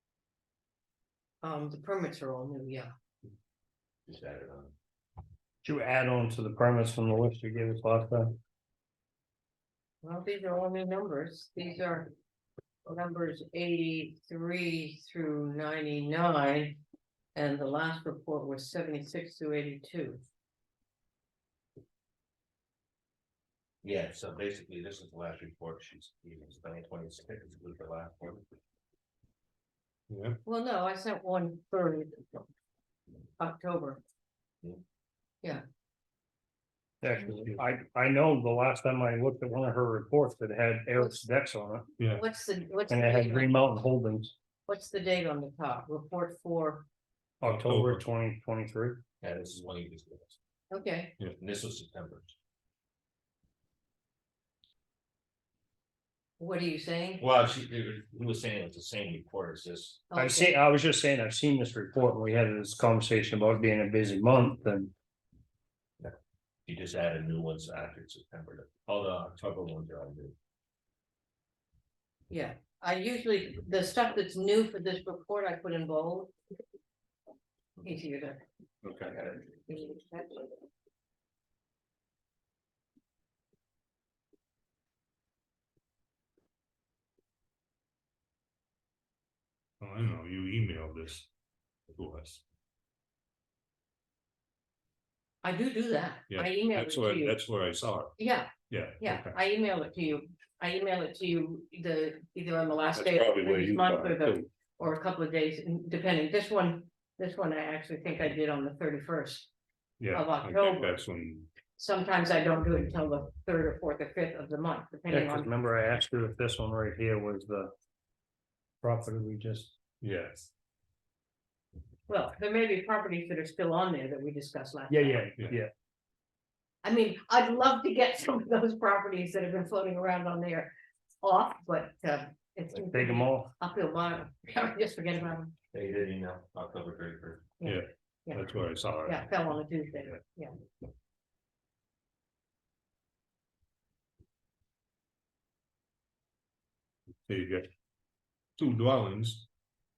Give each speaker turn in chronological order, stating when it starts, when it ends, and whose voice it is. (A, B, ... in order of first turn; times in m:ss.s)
0:01.4-0:02.9 A
0:04.1-0:04.7 B
0:05.6-0:08.4 C
0:10.0-0:12.1 A
0:12.9-0:16.8 A
0:17.4-0:20.2 A
0:23.8-0:28.5 B
0:30.1-0:30.4 D
0:30.5-0:32.4 A
0:33.4-0:34.0 A
0:37.0-0:41.9 C
0:41.0-0:41.2 A
0:42.1-0:43.6 A
0:42.9-0:44.3 C
0:44.7-0:46.9 A
0:47.4-0:49.0 C
0:47.4-0:48.0 D
0:49.2-0:50.4 B
0:50.7-0:51.2 A
0:51.4-0:52.4 B
0:56.4-0:57.2 A
0:57.2-1:00.0 B
1:00.1-1:00.6 A
1:00.2-1:04.9 C
1:06.0-1:10.4 B
1:12.3-1:16.3 A
1:17.8-1:18.4 A
1:18.8-1:19.2 D
1:19.1-1:19.4 B
1:19.7-1:20.6 A
1:29.8-1:31.3 D
1:31.9-1:32.4 D
1:35.4-1:37.4 A
1:36.3-1:38.2 D
1:38.2-1:49.5 A
1:38.7-1:39.4 D
1:42.9-1:44.5 D
1:50.0-1:51.5 D
1:50.1-1:51.0 A
1:51.8-1:55.5 A
1:55.1-1:57.7 C
1:58.8-1:59.7 C
2:00.0-2:00.5 D
2:02.1-2:05.3 A
2:04.9-2:05.7 C
2:06.8-2:15.5 A
2:12.9-2:13.5 C
2:15.7-2:17.5 B
2:17.6-2:18.4 A
2:17.6-2:19.6 D
2:19.1-2:20.5 A
2:27.3-2:27.7 D
2:28.6-2:29.5 D